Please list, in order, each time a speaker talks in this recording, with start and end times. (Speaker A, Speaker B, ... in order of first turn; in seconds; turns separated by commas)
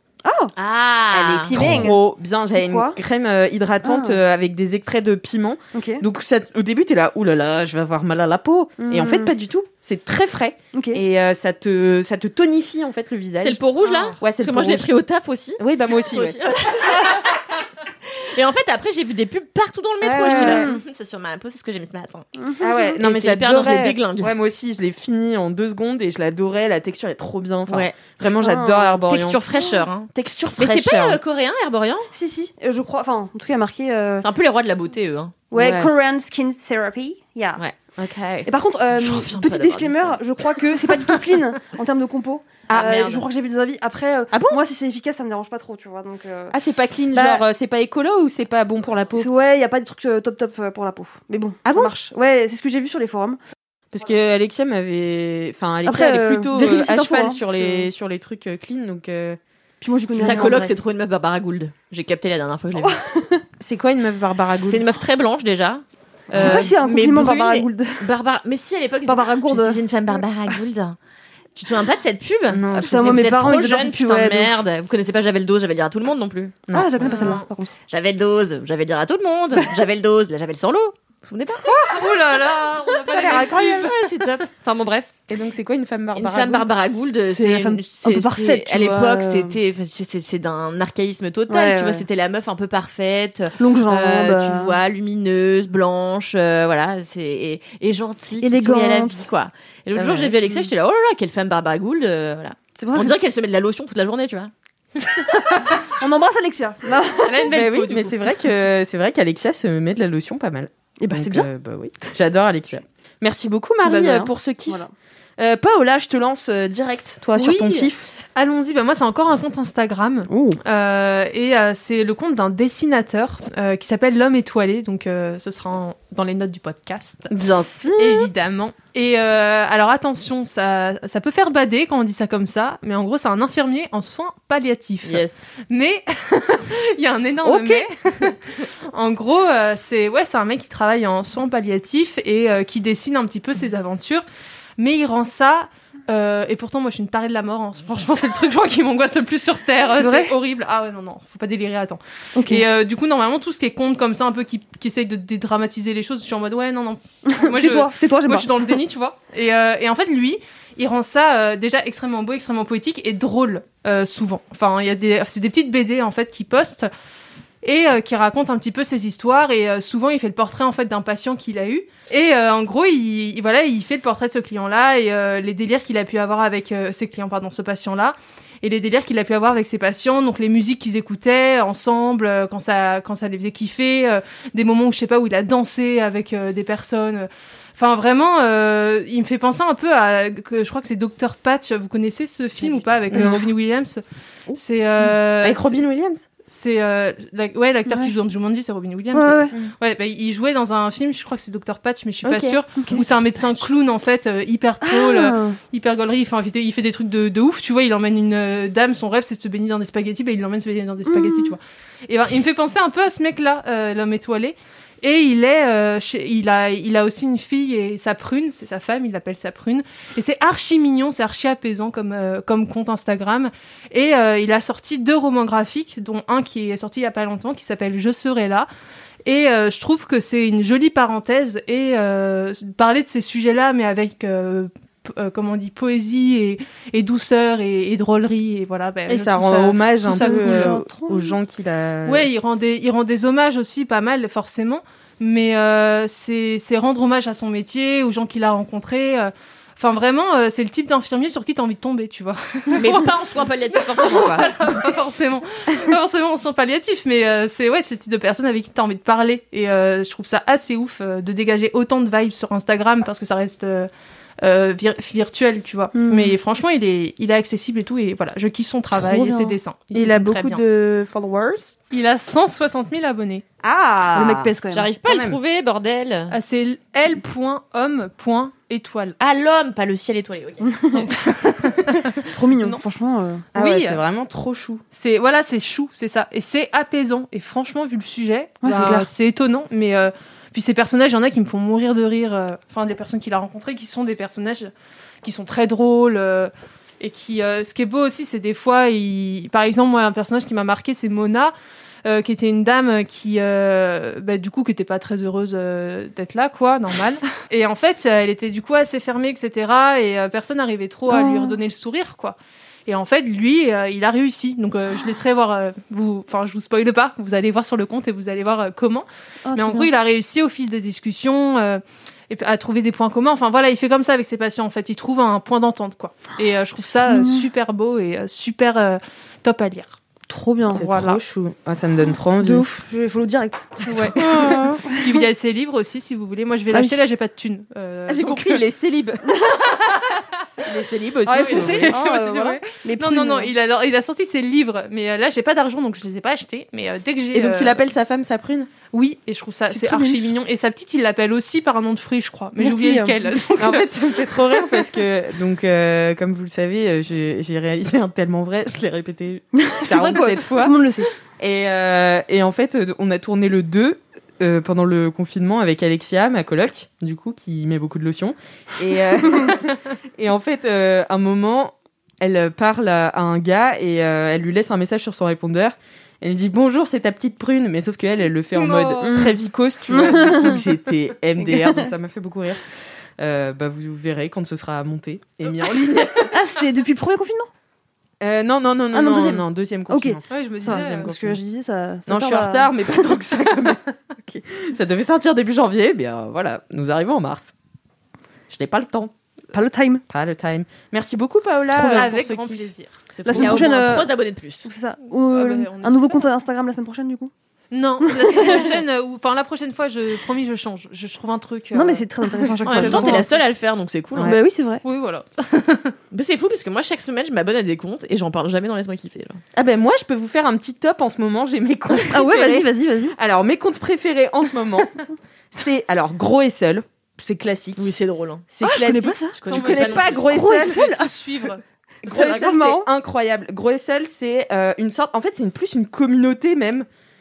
Speaker A: 0.2-0.5, Speaker B: 0.6-1.9, Speaker C: 1.1-13.6, Speaker A: 1.4-2.0, Speaker A: 2.5-3.0, Speaker A: 3.8-4.2, Speaker A: 5.7-6.0, Speaker A: 8.8-9.3, Speaker A: 10.7-11.0, Speaker B: 13.4-22.3, Speaker A: 13.8-14.2, Speaker C: 14.2-14.9, Speaker C: 15.6-16.4, Speaker A: 20.0-20.8, Speaker C: 20.3-20.7, Speaker A: 22.4-22.9, Speaker C: 22.6-29.4, Speaker B: 22.9-24.3, Speaker B: 27.7-28.0, Speaker A: 28.2-29.0, Speaker B: 29.1-32.1, Speaker C: 30.1-31.2, Speaker A: 32.1-34.3, Speaker B: 34.2-35.4, Speaker A: 35.5-37.6, Speaker C: 35.5-35.9, Speaker B: 37.6-41.2, Speaker C: 38.0-38.2, Speaker A: 38.5-46.5, Speaker C: 42.7-43.0, Speaker B: 42.7-43.3, Speaker C: 44.3-44.6, Speaker C: 46.5-49.3, Speaker A: 47.1-47.4, Speaker A: 49.2-53.4, Speaker C: 51.6-51.9, Speaker C: 53.9-59.4, Speaker A: 55.9-57.9, Speaker A: 59.8-60.7, Speaker B: 60.1-63.0, Speaker C: 60.2-60.6, Speaker A: 62.8-63.4, Speaker C: 63.6-64.9, Speaker B: 64.6-71.0, Speaker C: 66.3-66.7, Speaker A: 66.3-68.1, Speaker A: 69.1-69.8, Speaker B: 71.5-81.8, Speaker C: 72.5-73.1, Speaker A: 72.8-74.5, Speaker C: 76.7-77.3, Speaker A: 76.7-77.7, Speaker D: 77.1-77.4, Speaker D: 81.7-83.9, Speaker B: 82.3-85.2, Speaker C: 83.2-83.5, Speaker C: 85.3-86.7, Speaker B: 86.2-104.5, Speaker A: 87.3-89.6, Speaker A: 91.5-92.1, Speaker A: 93.6-94.8, Speaker A: 98.4-99.3, Speaker C: 100.0-100.7, Speaker A: 102.8-103.2, Speaker A: 105.2-107.5, Speaker D: 107.2-108.2, Speaker C: 107.5-114.8, Speaker A: 111.0-111.5, Speaker A: 113.8-114.9, Speaker C: 115.4-118.0, Speaker D: 117.4-127.3, Speaker A: 120.3-120.6, Speaker C: 127.3-128.3, Speaker D: 128.0-144.2, Speaker B: 135.0-135.4, Speaker D: 144.8-166.9, Speaker A: 149.9-150.3, Speaker A: 152.4-152.7, Speaker A: 157.3-158.8, Speaker D: 167.6-194.0, Speaker C: 193.1-193.4, Speaker A: 193.1-193.4, Speaker C: 194.5-196.2, Speaker D: 194.6-195.8, Speaker D: 196.5-228.7, Speaker A: 197.9-198.1, Speaker A: 199.1-199.5, Speaker A: 202.2-203.1, Speaker A: 204.8-205.6, Speaker A: 211.1-211.6, Speaker D: 229.2-240.8, Speaker C: 239.1-242.3, Speaker A: 240.1-241.4, Speaker D: 242.1-253.1, Speaker B: 252.8-254.6, Speaker D: 253.8-263.9, Speaker D: 264.4-270.6, Speaker A: 265.9-266.4, Speaker A: 269.0-269.6, Speaker C: 269.9-271.8, Speaker D: 271.9-273.4, Speaker C: 273.6-274.5, Speaker A: 274.1-274.9, Speaker B: 274.7-276.4, Speaker C: 275.1-275.4, Speaker D: 276.3-279.2, Speaker B: 279.2-281.0, Speaker A: 280.6-281.1, Speaker D: 281.1-282.1, Speaker A: 282.2-283.5, Speaker C: 283.5-284.8, Speaker D: 283.6-284.0, Speaker D: 284.9-294.7, Speaker A: 288.6-289.1, Speaker D: 295.2-330.0, Speaker A: 311.1-311.6, Speaker A: 319.5-319.9, Speaker A: 326.8-327.5, Speaker A: 330.3-331.1, Speaker C: 330.7-332.7, Speaker D: 330.8-331.2, Speaker A: 332.4-335.3, Speaker D: 333.9-338.6, Speaker C: 334.2-334.6, Speaker A: 336.7-337.0, Speaker C: 338.1-339.4, Speaker A: 339.3-339.6, Speaker C: 340.6-342.6, Speaker A: 341.3-343.5, Speaker D: 341.3-347.9, Speaker C: 347.3-348.7, Speaker D: 348.9-353.9, Speaker A: 349.7-350.3, Speaker A: 352.6-353.4, Speaker C: 353.6-360.8, Speaker A: 359.5-361.1, Speaker C: 361.4-382.6, Speaker D: 378.5-379.1, Speaker A: 379.0-379.4, Speaker A: 379.9-380.6, Speaker A: 381.4-381.9, Speaker C: 383.2-386.3, Speaker A: 386.3-387.5, Speaker C: 388.2-391.4, Speaker A: 388.9-393.2, Speaker D: 390.3-391.1, Speaker C: 392.1-393.8, Speaker C: 394.5-397.5, Speaker C: 398.5-399.1, Speaker A: 399.5-400.0, Speaker C: 400.1-402.6, Speaker D: 401.7-403.0, Speaker B: 403.2-404.7, Speaker C: 403.2-403.6, Speaker A: 403.3-404.1, Speaker A: 404.6-407.3, Speaker D: 405.3-406.3, Speaker D: 407.7-413.2, Speaker A: 408.0-408.8, Speaker A: 411.7-413.3, Speaker B: 412.6-414.4, Speaker A: 414.2-414.8, Speaker D: 414.8-415.9, Speaker B: 416.1-419.4, Speaker C: 419.6-425.0, Speaker A: 422.1-423.2, Speaker C: 425.5-427.9, Speaker B: 427.8-428.4, Speaker C: 428.5-431.0, Speaker A: 428.6-431.5, Speaker B: 429.4-430.3, Speaker D: 429.5-431.6, Speaker A: 432.0-432.9, Speaker C: 432.0-436.9